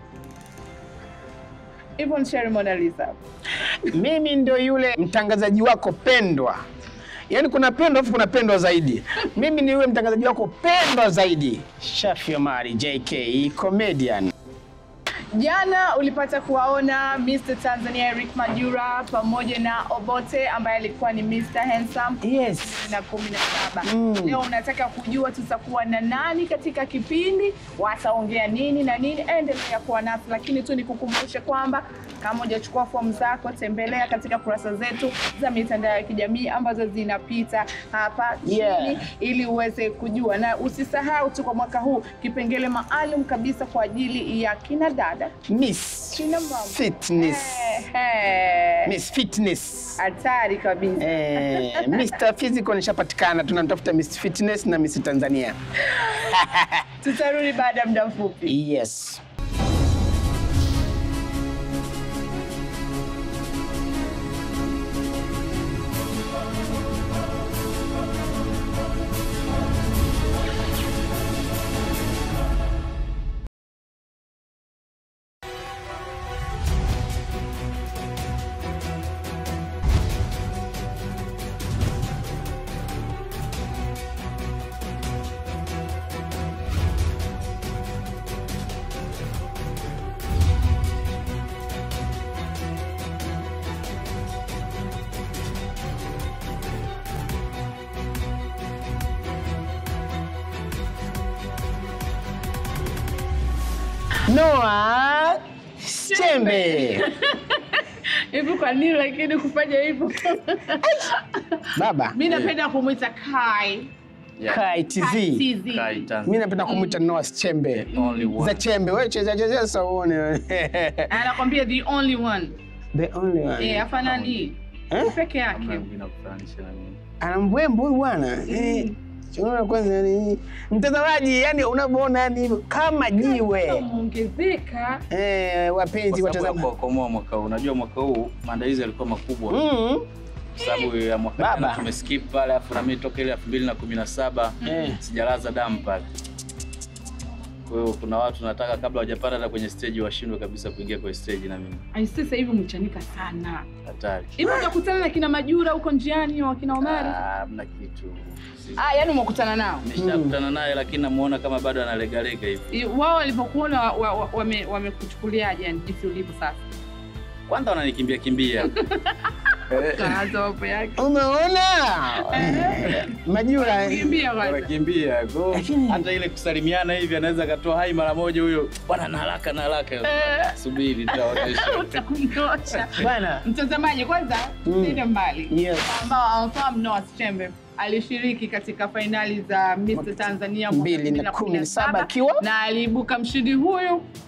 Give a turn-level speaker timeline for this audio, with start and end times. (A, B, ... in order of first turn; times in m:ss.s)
0:02.0-0:03.2 A
0:03.7-0:06.6 B
0:07.3-0:14.3 B
0:15.3-0:45.3 A
0:22.2-0:22.9 B
0:23.8-0:24.4 B
0:38.4-0:39.0 B
0:45.5-0:47.8 B
0:46.2-0:48.9 A
0:48.8-0:50.0 B
0:50.0-0:52.1 A
0:51.0-0:56.9 B
0:55.9-0:56.4 A
0:57.0-0:58.6 A
0:58.5-0:59.2 B
1:44.3-1:47.1 B
1:46.1-1:53.9 A
1:50.8-1:51.1 B
1:51.7-1:52.2 B
1:54.4-1:54.6 C
1:54.5-1:55.4 B
1:55.0-1:56.1 A
1:55.6-1:56.4 C
1:56.2-2:01.1 B
1:56.6-1:57.0 A
1:57.9-1:58.3 A
1:57.9-1:58.6 C
2:01.1-2:02.5 A
2:02.9-2:03.9 B
2:03.6-2:05.8 A
2:04.0-2:04.5 C
2:04.9-2:05.2 B
2:05.5-2:07.0 C
2:07.2-2:13.8 B
2:08.5-2:09.0 A
2:13.2-2:15.0 A
2:15.1-2:16.7 B
2:16.1-2:19.6 C
2:19.5-2:20.0 B
2:20.6-2:20.9 A
2:20.6-2:26.0 C
2:21.4-2:21.9 B
2:24.6-2:24.9 A
2:24.6-2:25.0 B
2:27.7-2:31.8 C
2:31.9-2:33.7 A
2:33.8-2:34.4 C
2:34.4-2:37.2 A
2:36.8-2:38.9 C
2:38.8-2:39.9 A
2:39.8-2:42.7 C
2:40.0-2:40.4 B
2:42.7-2:46.6 A
2:47.5-2:48.7 C
2:48.8-2:51.1 A
2:49.7-2:50.2 C
2:51.0-2:54.1 B
2:52.2-2:54.7 A
2:54.4-3:02.0 C
2:55.5-2:56.1 B
3:00.1-3:00.6 A
3:01.1-3:14.1 A
3:02.9-3:03.4 B
3:04.7-3:06.0 B
3:09.9-3:12.4 B